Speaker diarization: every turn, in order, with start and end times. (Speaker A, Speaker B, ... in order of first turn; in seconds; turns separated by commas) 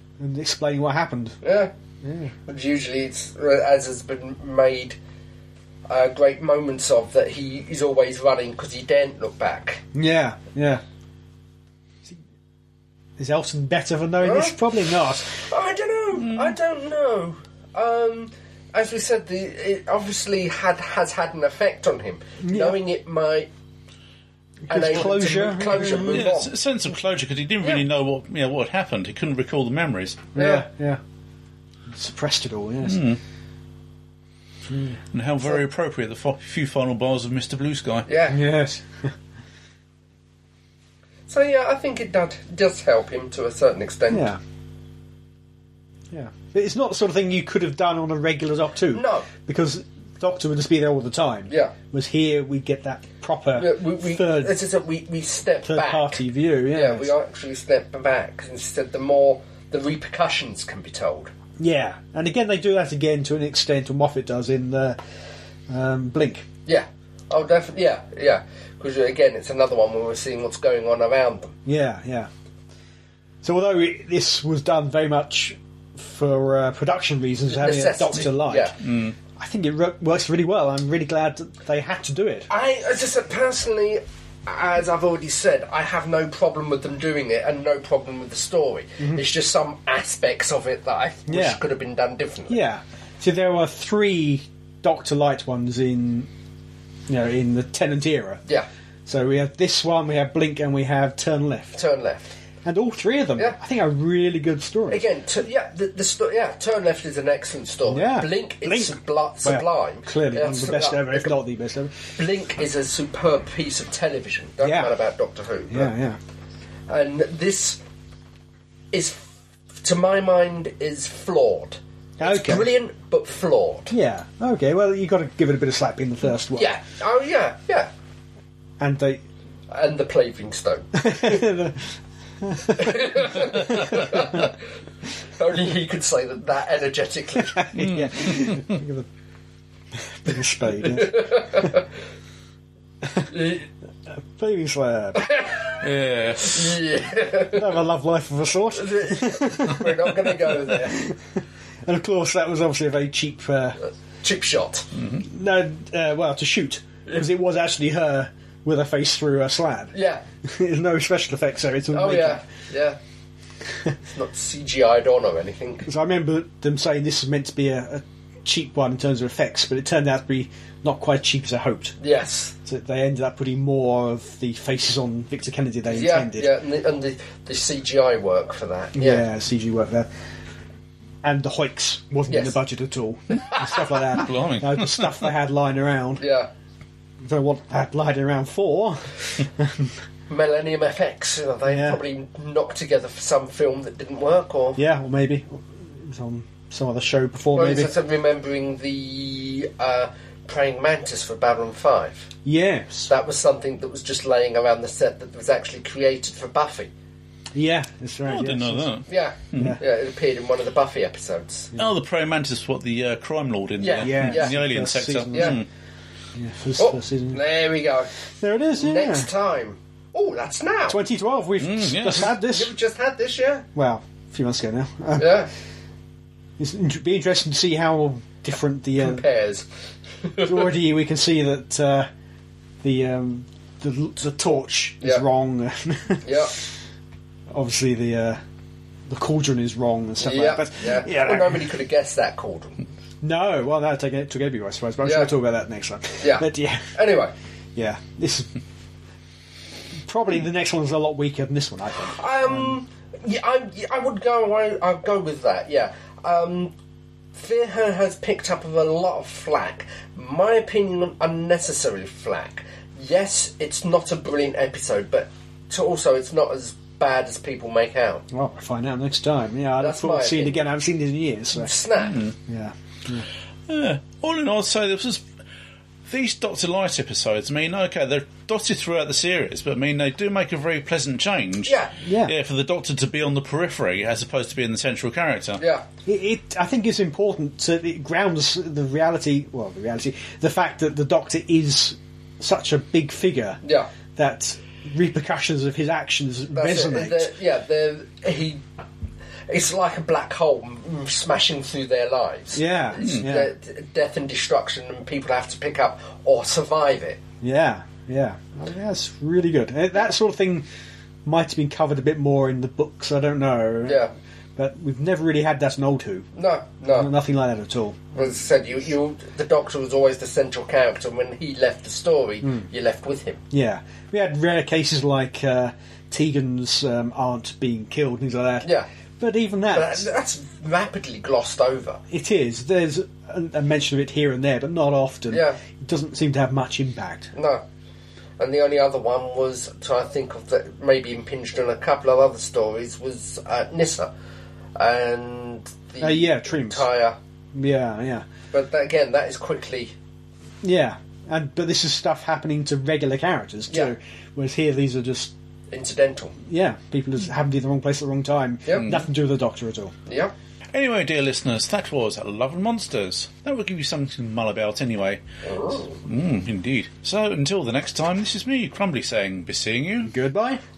Speaker A: 0.2-1.4, Speaker B: 1.4-1.7, Speaker A: 2.0-2.4, Speaker B: 2.5-5.0, Speaker B: 5.9-9.8, Speaker A: 9.9-10.8, Speaker A: 13.2-15.4, Speaker B: 14.2-14.6, Speaker B: 15.3-23.5, Speaker A: 22.4-22.8, Speaker A: 24.7-26.3, Speaker B: 24.7-26.5, Speaker C: 26.0-30.3, Speaker A: 30.4-31.0, Speaker B: 30.4-30.7, Speaker A: 31.9-33.0, Speaker C: 32.8-33.2, Speaker A: 34.7-35.0, Speaker C: 35.1-38.1, Speaker B: 38.1-38.5, Speaker A: 38.3-39.1, Speaker B: 41.3-44.3, Speaker A: 44.1-44.4, Speaker A: 46.1-54.6, Speaker B: 48.9-49.3, Speaker B: 51.5-51.8, Speaker B: 53.5-56.2, Speaker A: 55.6-57.1, Speaker B: 56.7-61.3, Speaker A: 61.6-65.0, Speaker A: 65.7-66.5, Speaker B: 66.7-71.6, Speaker A: 71.7-72.3, Speaker A: 73.4-78.8, Speaker B: 77.5-78.8, Speaker C: 78.8-79.2, Speaker A: 79.4-82.5, Speaker B: 82.5-92.6, Speaker A: 91.3-91.6, Speaker A: 92.5-96.3, Speaker A: 97.1-98.4, Speaker A: 99.1-101.8, Speaker B: 101.8-102.3, Speaker A: 102.6-105.1, Speaker B: 104.9-111.3, Speaker A: 107.9-112.0, Speaker B: 112.2-115.9, Speaker A: 114.6-114.9, Speaker A: 115.7-116.2, Speaker B: 116.9-117.8, Speaker B: 118.9-119.3, Speaker B: 119.8-123.9, Speaker A: 122.2-122.7, Speaker A: 123.9-126.7, Speaker B: 126.5-127.9, Speaker A: 128.8-129.2, Speaker B: 129.7-131.5, Speaker A: 130.9-134.2, Speaker B: 132.7-134.6, Speaker B: 135.3-137.6, Speaker A: 137.4-139.1, Speaker C: 137.8-138.7, Speaker A: 139.9-141.7, Speaker B: 140.9-141.8, Speaker A: 143.0-143.4, Speaker B: 143.3-143.7, Speaker A: 144.1-145.3, Speaker B: 145.2-145.8, Speaker C: 145.8-146.8, Speaker B: 146.4-147.8, Speaker A: 147.5-150.1, Speaker B: 148.8-151.0, Speaker A: 150.7-153.8, Speaker B: 154.2-154.9, Speaker C: 155.0-155.2, Speaker A: 155.2-162.4, Speaker B: 159.9-160.2, Speaker B: 161.9-163.0, Speaker B: 164.1-165.9, Speaker A: 165.8-172.0, Speaker B: 172.0-172.6, Speaker A: 172.7-176.5, Speaker B: 175.9-179.3, Speaker A: 178.9-180.1, Speaker A: 181.2-186.2, Speaker B: 182.3-182.6, Speaker B: 183.4-183.8, Speaker C: 184.1-185.3, Speaker B: 186.2-186.5, Speaker A: 187.2-189.9, Speaker B: 190.3-194.8, Speaker A: 191.7-192.0, Speaker A: 194.8-197.9, Speaker B: 197.5-202.3, Speaker A: 202.4-203.1, Speaker B: 203.1-206.9, Speaker A: 207.5-208.9, Speaker C: 208.3-209.8, Speaker B: 209.1-211.7, Speaker A: 209.6-209.8, Speaker C: 211.8-215.7, Speaker B: 213.8-214.6, Speaker A: 214.0-215.6, Speaker A: 216.3-217.4, Speaker B: 216.8-218.1, Speaker A: 218.4-219.3, Speaker B: 218.8-221.0, Speaker A: 220.9-222.7, Speaker C: 221.6-222.4, Speaker B: 222.3-223.7, Speaker A: 223.8-225.4, Speaker B: 225.2-225.5, Speaker A: 226.6-229.2, Speaker B: 229.0-229.7, Speaker B: 230.2-230.7, Speaker A: 230.4-232.1, Speaker A: 232.8-236.7, Speaker B: 236.2-236.5, Speaker A: 237.5-238.4, Speaker A: 239.1-241.7, Speaker B: 240.2-242.8, Speaker A: 243.2-247.0, Speaker B: 245.0-245.3, Speaker B: 246.2-247.3, Speaker A: 247.8-248.5, Speaker A: 250.0-252.8, Speaker B: 252.0-256.7, Speaker B: 257.4-268.2, Speaker A: 268.3-271.7, Speaker B: 269.8-270.6, Speaker B: 271.5-272.3, Speaker C: 272.0-272.3, Speaker A: 272.5-273.3, Speaker C: 273.7-275.2, Speaker C: 276.1-285.6, Speaker B: 281.7-281.9, Speaker A: 282.1-282.3, Speaker B: 285.6-285.9, Speaker A: 286.1-293.6, Speaker B: 293.6-293.9, Speaker A: 294.2-297.3, Speaker B: 296.5-298.6, Speaker B: 299.5-307.2, Speaker A: 302.6-303.5, Speaker A: 307.4-310.6, Speaker A: 311.2-316.3, Speaker B: 313.9-314.1, Speaker B: 316.3-317.1, Speaker A: 316.9-318.1, Speaker B: 318.1-323.4, Speaker A: 323.5-328.7, Speaker A: 329.2-330.1, Speaker B: 329.7-332.0, Speaker A: 332.1-337.3, Speaker B: 335.3-335.6, Speaker B: 337.4-337.6, Speaker B: 338.4-344.1, Speaker B: 344.8-347.2, Speaker A: 346.0-346.9, Speaker A: 347.5-348.2, Speaker B: 348.5-349.9, Speaker A: 350.6-355.3, Speaker B: 355.7-356.4, Speaker A: 356.5-359.9, Speaker B: 358.7-359.0, Speaker B: 360.1-360.3, Speaker C: 360.7-365.2, Speaker B: 365.4-366.0, Speaker C: 365.9-370.1, Speaker A: 370.1-370.6